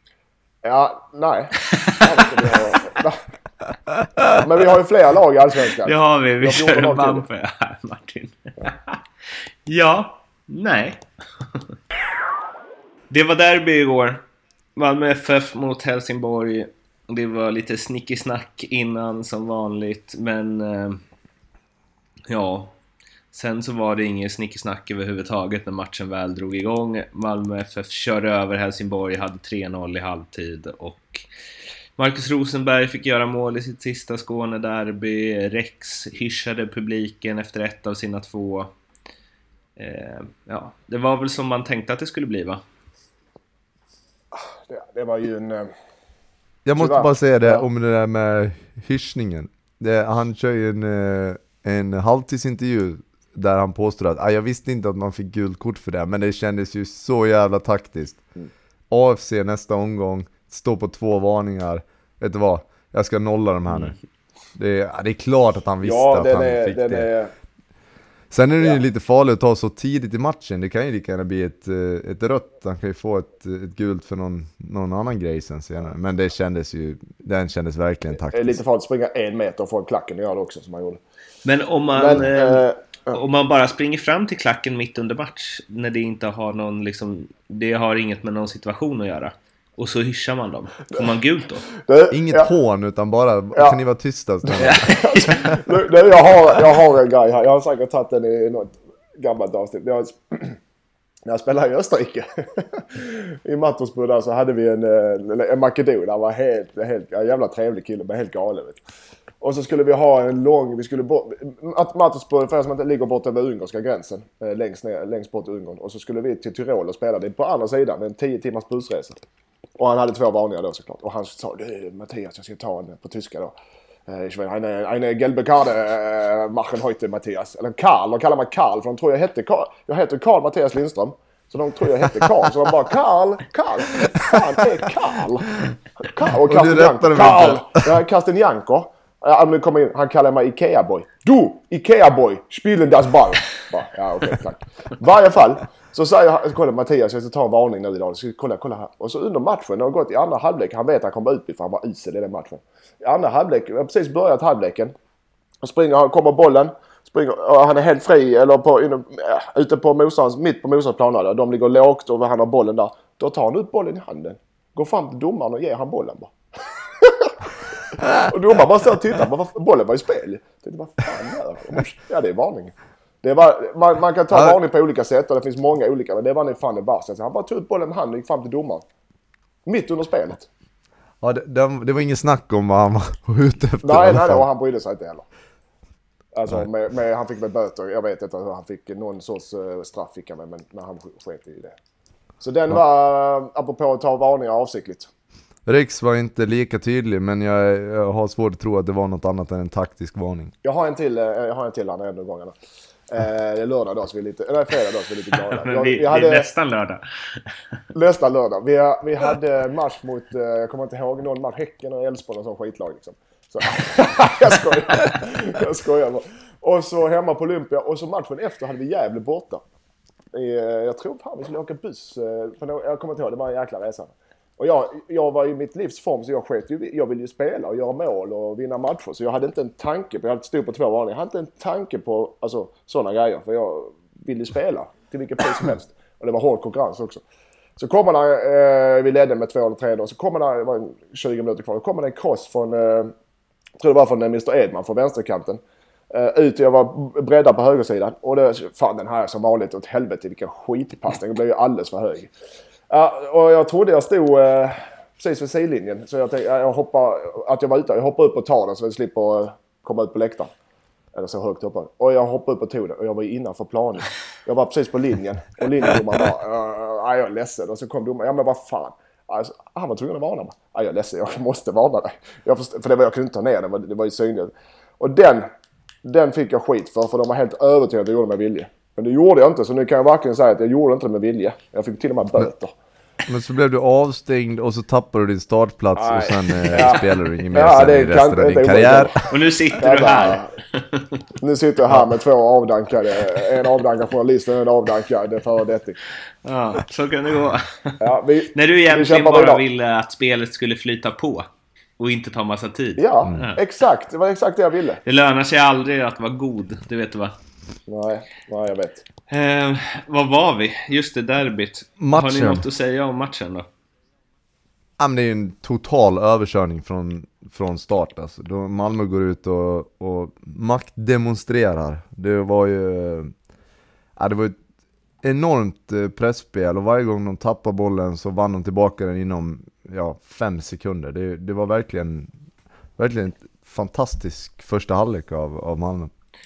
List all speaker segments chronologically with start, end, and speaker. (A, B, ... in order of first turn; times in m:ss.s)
0:00.6-0:03.2 A
0:01.7-0:02.5 B
0:04.4-0:07.2 A
0:05.8-0:09.0 B
0:09.7-0:11.7 B
0:13.1-0:14.2 B
0:14.8-0:21.0 B
0:22.3-0:22.8 B
0:23.3-0:31.3 B
0:32.0-0:38.7 B
0:39.8-0:42.6 B
0:44.3-0:45.7 A
0:46.6-0:58.2 C
0:46.8-0:47.7 A
0:58.9-1:04.0 C
1:04.6-1:07.1 C
1:05.8-1:07.3 A
1:08.3-1:18.6 C
1:18.3-1:21.0 A
1:21.4-1:31.7 B
1:21.9-1:23.2 A
1:31.7-1:32.5 A
1:32.1-1:35.6 C
1:34.5-1:40.6 A
1:34.6-1:35.6 B
1:41.3-1:48.8 A
1:49.4-1:59.2 A
1:59.8-2:03.5 A
2:04.1-2:15.5 A
2:16.0-2:34.9 A
2:16.2-2:17.9 C
2:35.6-2:47.4 A
2:48.1-2:58.8 A
2:54.3-2:54.6 C
2:59.7-3:00.5 A
3:01.2-3:04.5 C
3:03.8-3:05.3 A
3:06.4-3:11.8 A
3:12.4-3:15.1 A
3:15.7-3:20.5 C
3:20.6-3:22.6 A
3:23.1-3:26.5 A
3:25.4-3:27.5 B
3:27.9-3:39.6 A
3:40.3-3:57.2 A
3:57.8-4:03.1 A
4:03.8-4:05.6 A
4:06.1-4:12.3 A
4:12.9-4:20.5 A
4:21.1-4:35.5 A
4:36.0-4:42.7 A
4:43.3-4:49.3 C
4:46.0-4:49.2 A
4:49.3-4:51.1 B
4:49.8-4:50.5 A
4:51.4-4:56.0 A
4:56.4-4:58.0 B
4:58.0-4:59.6 A
4:58.5-5:01.5 B
5:02.0-5:03.6 B
5:03.0-5:05.0 A
5:05.0-5:07.3 B
5:07.9-5:09.1 A
5:09.3-5:13.7 B
5:12.0-5:12.7 C
5:15.0-5:23.3 C
5:24.2-5:24.6 C
5:25.2-5:32.3 C
5:33.0-5:36.1 C